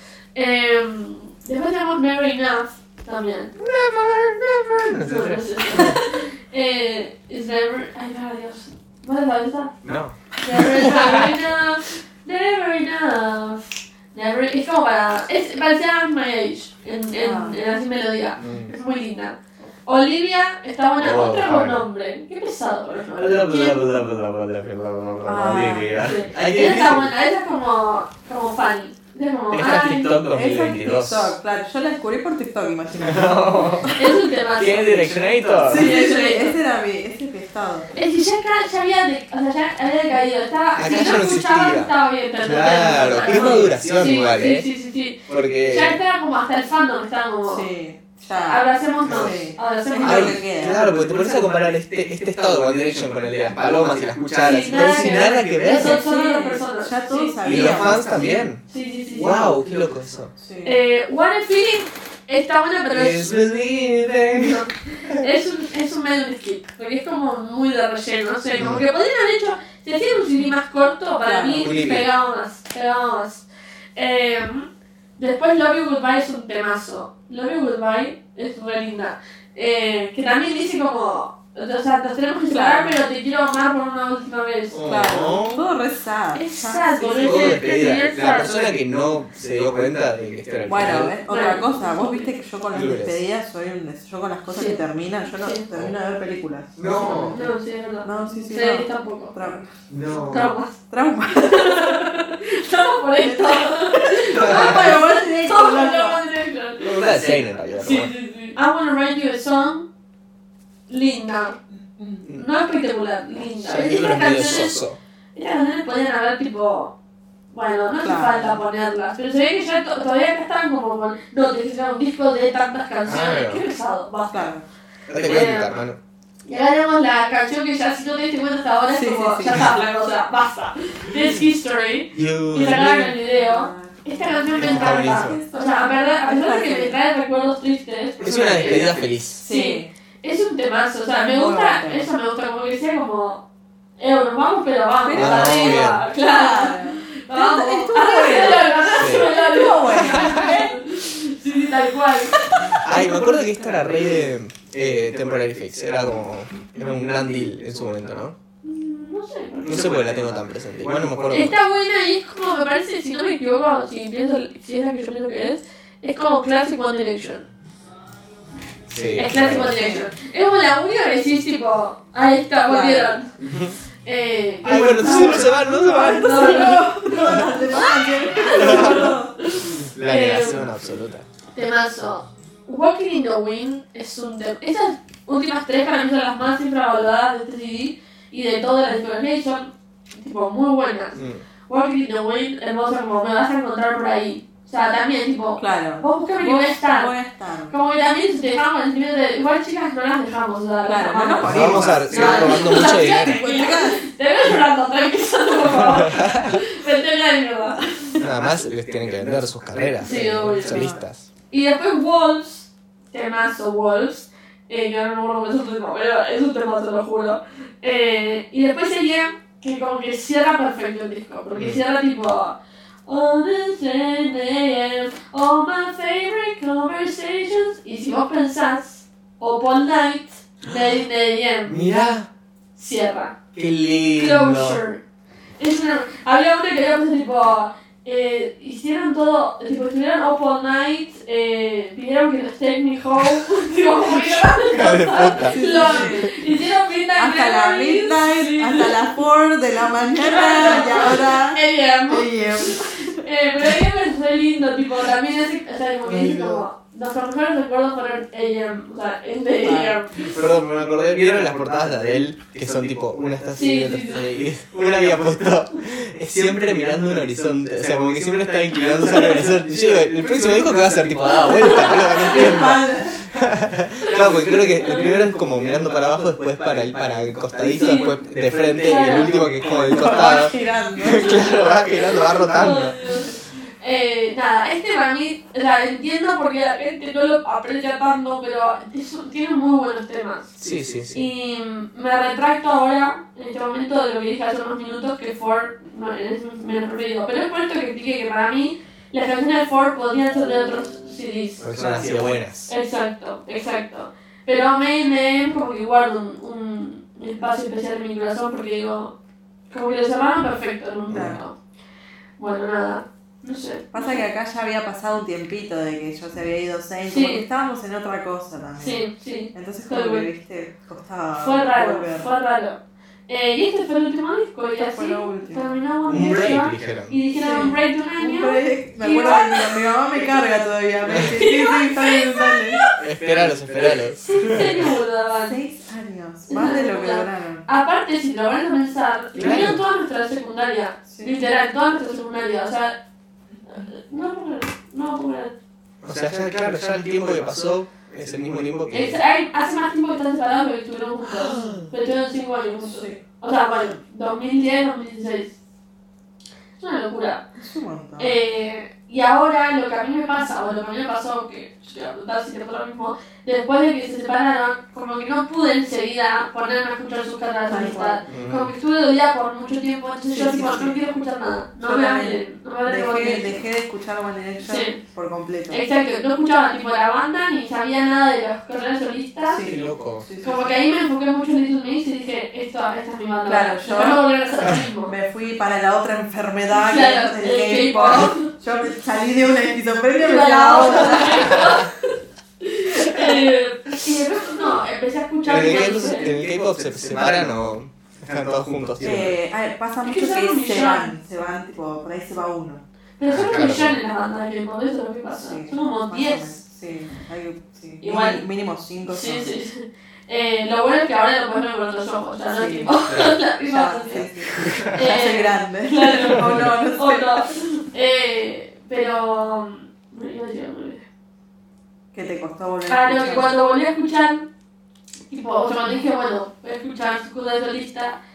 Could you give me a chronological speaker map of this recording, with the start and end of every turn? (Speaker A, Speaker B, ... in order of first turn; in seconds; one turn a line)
Speaker A: 0.3-3.5
Speaker B: 3.6-6.0
Speaker A: 5.0-9.8
Speaker B: 9.8-11.4
Speaker A: 10.4-23.8
Speaker C: 17.2-17.6
Speaker B: 18.4-18.7
Speaker B: 21.0-21.8
Speaker B: 23.1-27.1
Speaker C: 25.2-26.0
Speaker A: 25.9-30.2
Speaker B: 29.5-31.3
Speaker C: 30.3-34.0
Speaker B: 33.0-34.0
Speaker A: 33.9-35.1
Speaker B: 34.6-35.9
Speaker C: 35.6-37.9
Speaker A: 35.6-36.5
Speaker A: 37.9-47.6
Speaker B: 40.8-44.7
Speaker C: 43.3-43.7
Speaker B: 45.3-46.0
Speaker C: 47.5-51.0
Speaker A: 48.5-50.4
Speaker B: 49.0-49.3
Speaker B: 50.0-56.0
Speaker A: 54.4-58.0
Speaker C: 54.7-58.3
Speaker B: 57.4-60.3
Speaker A: 58.6-59.5
Speaker C: 60.4-60.8
Speaker A: 60.6-63.3
Speaker B: 62.9-65.2
Speaker A: 64.3-84.8
Speaker B: 68.5-68.8
Speaker C: 71.2-71.7
Speaker B: 71.6-72.1
Speaker C: 82.5-83.0
Speaker B: 84.7-85.6
Speaker C: 84.8-87.7
Speaker A: 86.3-88.6
Speaker B: 87.2-91.2
Speaker C: 90.7-99.7
Speaker A: 91.3-92.3
Speaker B: 92.7-93.2
Speaker A: 94.5-94.8
Speaker A: 95.4-95.7
Speaker B: 96.8-97.4
Speaker A: 96.9-99.3
Speaker B: 99.9-100.5
Speaker A: 100.2-100.8
Speaker C: 100.9-102.0
Speaker A: 101.3-107.2
Speaker C: 103.2-106.2
Speaker B: 104.3-105.0
Speaker B: 106.8-108.1
Speaker A: 107.7-109.9
Speaker A: 110.9-111.6
Speaker C: 111.7-112.2
Speaker A: 112.3-114.8
Speaker B: 113.6-115.0
Speaker A: 115.3-116.9
Speaker A: 117.5-124.5
Speaker C: 118.0-118.6
Speaker B: 123.0-123.6
Speaker C: 124.3-124.6
Speaker B: 125.1-126.0
Speaker A: 125.2-125.7
Speaker A: 126.4-143.4
Speaker C: 128.9-129.7
Speaker B: 132.1-133.2
Speaker C: 133.3-137.0
Speaker B: 134.6-135.4
Speaker B: 138.2-139.4
Speaker C: 138.6-139.9
Speaker C: 141.2-142.1
Speaker A: 144.0-152.6
Speaker C: 145.0-150.8
Speaker B: 145.1-146.1
Speaker B: 148.9-149.3
Speaker B: 149.9-150.6
Speaker C: 152.3-153.2
Speaker B: 152.6-158.3
Speaker A: 158.6-160.2
Speaker B: 159.6-161.6
Speaker A: 161.3-167.4
Speaker B: 168.9-169.8
Speaker A: 169.1-173.3
Speaker C: 169.4-170.1
Speaker C: 172.6-173.2
Speaker B: 173.4-173.8
Speaker A: 174.0-180.7
Speaker B: 174.6-177.4
Speaker C: 175.0-179.3
Speaker B: 178.5-179.2
Speaker B: 179.8-181.2
Speaker A: 181.5-197.1
Speaker B: 191.1-191.4
Speaker C: 195.6-197.8
Speaker A: 197.7-208.1
Speaker C: 200.8-204.0
Speaker B: 201.4-203.4
Speaker B: 205.6-206.6
Speaker B: 208.2-211.3
Speaker A: 210.0-210.9
Speaker C: 210.6-211.0
Speaker A: 211.5-231.8
Speaker B: 221.5-221.8
Speaker B: 231.7-232.3
Speaker A: 232.8-233.4
Speaker B: 233.5-234.8
Speaker A: 234.1-235.0
Speaker A: 235.6-249.0
Speaker B: 244.7-246.3
Speaker C: 245.4-246.3
Speaker C: 247.2-253.2
Speaker A: 250.2-260.4
Speaker B: 256.1-256.6
Speaker C: 259.6-260.0
Speaker B: 260.2-283.0
Speaker A: 263.5-264.2
Speaker A: 271.3-272.7
Speaker C: 272.1-273.2
Speaker A: 274.8-275.2
Speaker A: 277.7-278.1
Speaker A: 278.8-279.3
Speaker C: 279.6-281.4
Speaker A: 281.2-290.6
Speaker B: 290.6-291.3
Speaker A: 291.1-301.7
Speaker B: 301.6-302.7
Speaker C: 301.8-302.1
Speaker A: 302.7-309.1
Speaker A: 309.7-311.6
Speaker B: 311.1-311.4
Speaker C: 311.1-311.4
Speaker A: 312.4-314.2
Speaker C: 313.9-322.3
Speaker A: 317.1-317.4
Speaker A: 318.8-320.3
Speaker A: 321.4-330.2
Speaker C: 324.9-325.8
Speaker B: 326.1-327.2
Speaker C: 327.4-332.8
Speaker A: 331.1-333.0
Speaker B: 331.1-331.4
Speaker B: 333.0-334.9
Speaker A: 333.8-335.6
Speaker C: 335.4-337.6
Speaker A: 336.5-342.9
Speaker B: 339.3-339.8
Speaker C: 341.1-341.3
Speaker A: 343.6-345.5
Speaker B: 346.0-349.2
Speaker A: 348.9-355.5
Speaker B: 351.4-351.9
Speaker C: 352.8-353.2
Speaker A: 356.8-357.4
Speaker C: 357.5-358.4
Speaker A: 358.2-373.6
Speaker C: 367.7-368.3
Speaker B: 368.3-368.7
Speaker C: 370.3-371.0
Speaker C: 371.8-375.8
Speaker A: 374.6-375.0
Speaker A: 375.7-379.7
Speaker C: 379.5-380.7
Speaker B: 379.6-380.3
Speaker A: 380.4-385.1
Speaker C: 383.4-384.3
Speaker C: 385.0-391.7
Speaker A: 386.7-388.5
Speaker A: 390.2-396.3
Speaker B: 395.4-399.4
Speaker C: 399.0-402.8
Speaker A: 400.0-401.1
Speaker A: 403.2-406.6
Speaker B: 403.2-404.0
Speaker C: 405.3-409.5
Speaker A: 408.0-408.4
Speaker A: 409.1-421.0
Speaker C: 412.5-413.0
Speaker B: 413.0-413.4
Speaker C: 413.6-417.4
Speaker B: 414.6-414.9
Speaker B: 416.4-416.7
Speaker C: 422.1-423.5
Speaker A: 422.9-424.5
Speaker A: 425.3-428.2